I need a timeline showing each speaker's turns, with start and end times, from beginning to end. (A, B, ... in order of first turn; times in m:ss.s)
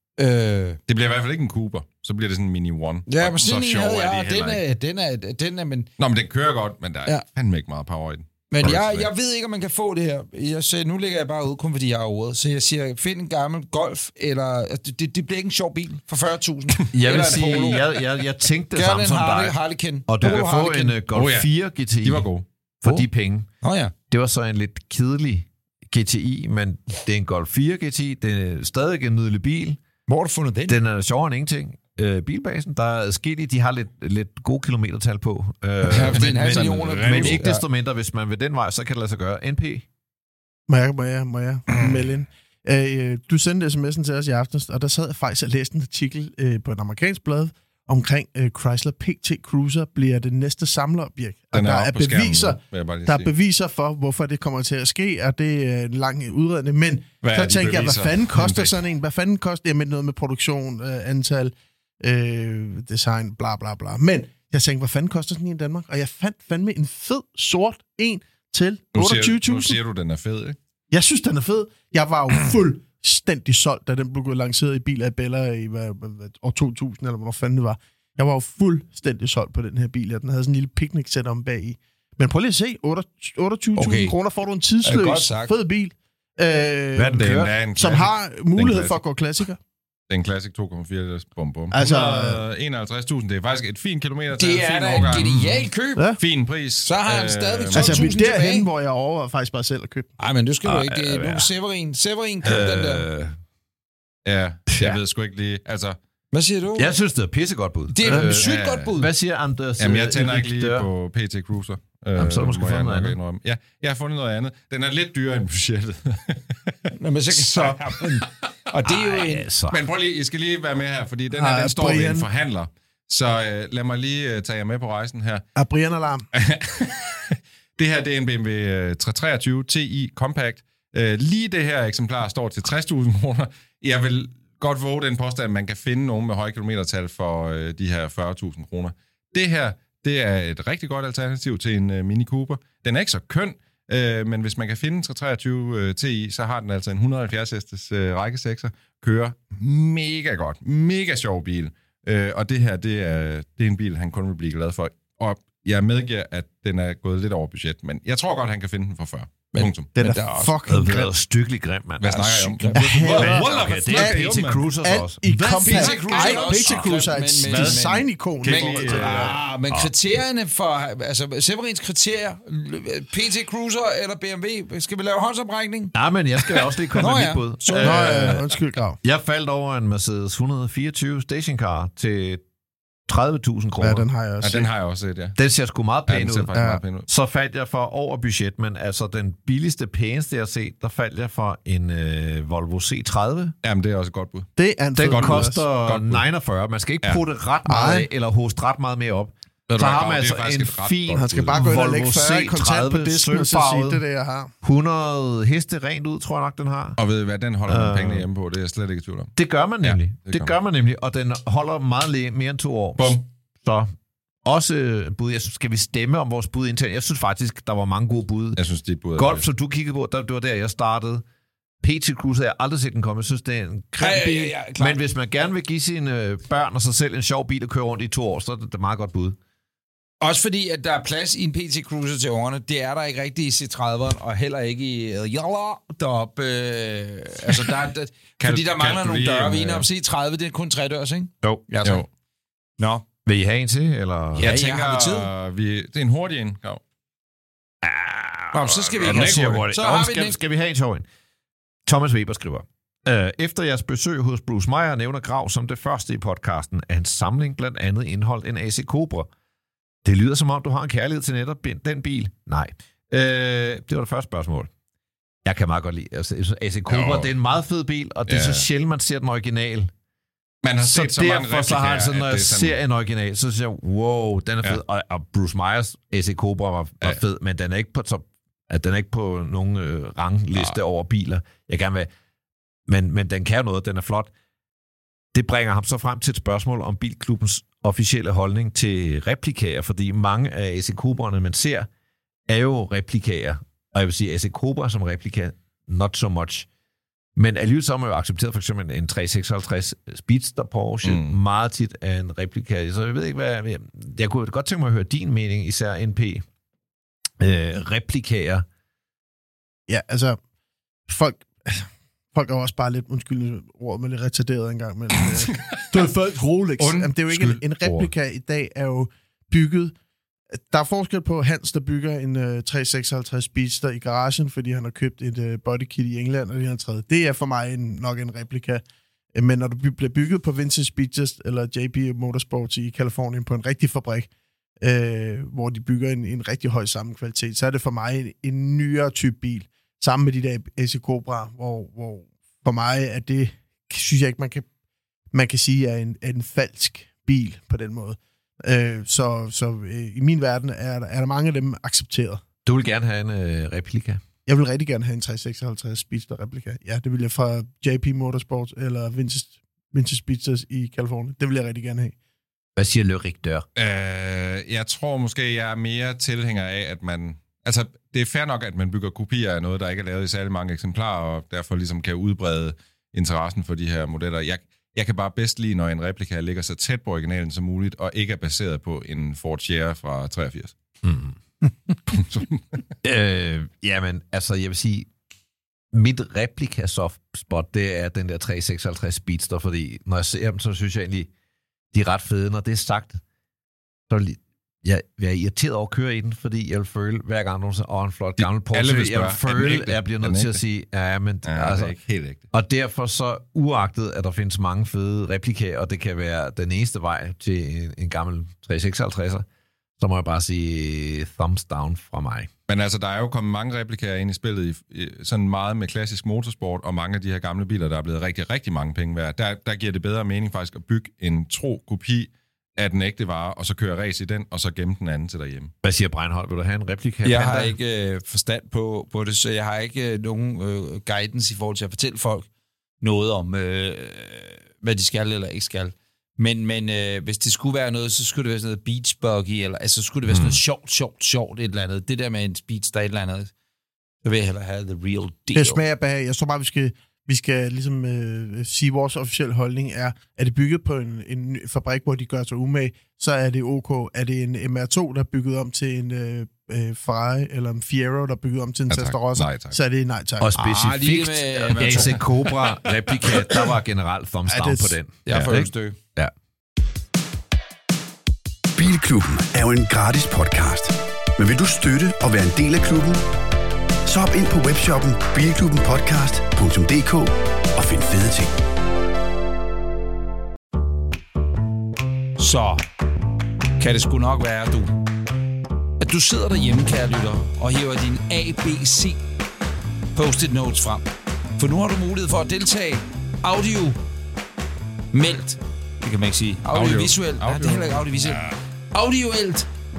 0:00.2-0:00.8 A
0:00.9-0:04.6 B
0:03.1-0:05.9 A
0:06.0-0:09.1 B
0:08.5-0:18.0 A
0:16.9-0:22.3 C
0:18.7-0:21.0 A
0:21.1-0:22.5 B
0:22.8-0:23.5 C
0:23.6-0:23.9 A
0:24.1-0:29.8 C
0:30.1-0:30.8 A
0:30.7-0:39.9 C
0:35.8-0:37.6 A
0:35.8-0:37.5 B
0:40.7-1:09.8 D
0:51.5-0:53.3 B
0:57.2-0:58.8 B
1:08.9-1:10.6 B
1:10.9-1:29.6 D
1:23.8-1:24.2 A
1:24.8-1:25.5 A
1:27.0-1:27.6 C
1:27.2-1:29.0 B
1:30.1-1:35.3 B
1:31.7-1:32.4 D
1:34.3-1:36.1 A
1:35.0-1:35.7 C
1:36.2-1:38.1 B
1:36.8-1:38.7 A
1:37.7-1:40.1 D
1:40.2-1:43.1 A
1:40.6-1:41.5 C
1:42.4-1:43.4 C
1:44.2-1:46.0 B
1:44.7-1:45.0 C
1:46.3-1:46.9 A
1:46.8-1:50.9 C
1:47.9-1:49.1 A
1:48.0-1:49.0 B
1:49.8-1:58.3 B
1:52.2-1:53.2 C
1:57.0-1:59.5 A
1:58.9-1:59.8 C
1:59.7-2:05.4 B
2:01.3-2:02.3 D
2:05.6-2:06.3 D
2:06.3-2:39.9 B
2:39.5-2:40.6 A
2:40.0-2:41.1 D
2:40.7-2:46.9 C
2:42.0-2:44.7 B
2:42.1-2:42.8 A
2:42.7-2:49.4 D
2:45.4-2:55.9 A
2:45.7-2:46.8 B
2:47.5-2:47.8 B
2:48.4-2:49.4 B
2:55.9-2:58.4 C
2:56.6-2:58.3 A
2:57.8-2:59.0 D
2:59.0-3:02.4 C
3:03.1-3:04.1 C
3:03.8-3:04.7 D
3:04.4-3:05.4 B
3:05.4-3:13.6 C
3:06.1-3:07.1 B
3:13.6-3:14.5 B
3:14.6-3:15.6 D
3:15.0-3:24.0 C
3:15.0-3:16.2 B
3:17.7-3:18.1 D
3:19.7-3:21.6 B
3:21.2-3:24.5 D
3:24.6-3:27.0 C
3:27.0-3:30.5 B
3:27.7-3:28.3 C
3:29.4-3:33.9 C
3:33.0-3:33.2 B
3:34.4-3:38.6 C
3:38.6-3:39.5 B
3:39.2-3:41.2 C
3:41.8-3:49.4 C
3:44.0-3:45.0 A
3:50.2-4:02.1 A
3:58.4-3:59.9 B
4:02.8-4:03.0 A
4:03.3-4:04.6 C
4:04.4-4:05.3 A
4:04.4-4:06.8 B
4:07.8-4:11.0 C
4:08.5-4:10.4 A
4:09.0-4:09.6 B
4:11.9-4:19.3 C
4:20.0-4:24.7 C
4:25.4-4:29.9 C
4:26.9-4:27.3 B
4:28.3-4:28.7 B
4:30.6-4:32.8 B
4:30.8-4:42.1 C
4:42.9-4:44.3 C
4:45.3-4:51.9 C
4:52.5-4:56.7 C
4:57.4-5:06.4 C
5:01.0-5:01.4 B
5:07.4-5:08.7 C
5:09.9-5:10.4 D
5:11.1-5:19.9 D
5:15.2-5:16.0 B
5:16.8-5:18.1 B
5:20.6-5:28.8 D
5:29.3-5:34.3 D
5:34.8-5:44.7 D
5:45.3-5:52.4 D
5:52.6-5:54.2 C
5:54.5-6:02.2 D
6:02.8-6:03.6 C
6:03.8-6:20.8 B
6:21.0-6:21.4 C
6:22.1-6:22.6 B
6:23.0-6:25.1 C
6:25.9-6:31.3 C
6:31.9-6:33.2 C
6:34.1-6:42.0 C
6:38.4-6:40.6 B
6:41.4-6:42.4 B
6:42.5-6:49.4 C
6:50.0-6:52.5 C
6:52.7-7:05.7 B
7:05.8-7:07.7 C
7:07.2-7:12.5 A
7:07.4-7:07.7 B
7:13.0-7:23.5 A
7:20.3-7:20.6 C
7:24.2-7:25.8 A
7:25.6-7:40.5 D
7:38.9-7:39.8 B
7:40.4-7:46.3 C
7:40.6-7:42.2 A
7:41.7-7:43.7 B
7:44.5-7:45.0 D
7:45.3-7:46.0 A
7:45.3-7:45.5 B
7:48.8-7:53.2 E
7:54.0-7:58.6 E
8:02.4-8:02.8 A
8:03.8-8:04.9 A
8:06.0-8:09.2 A
8:10.2-8:11.1 A
8:11.6-8:14.0 A
8:15.1-8:19.7 A
8:16.7-8:18.6 B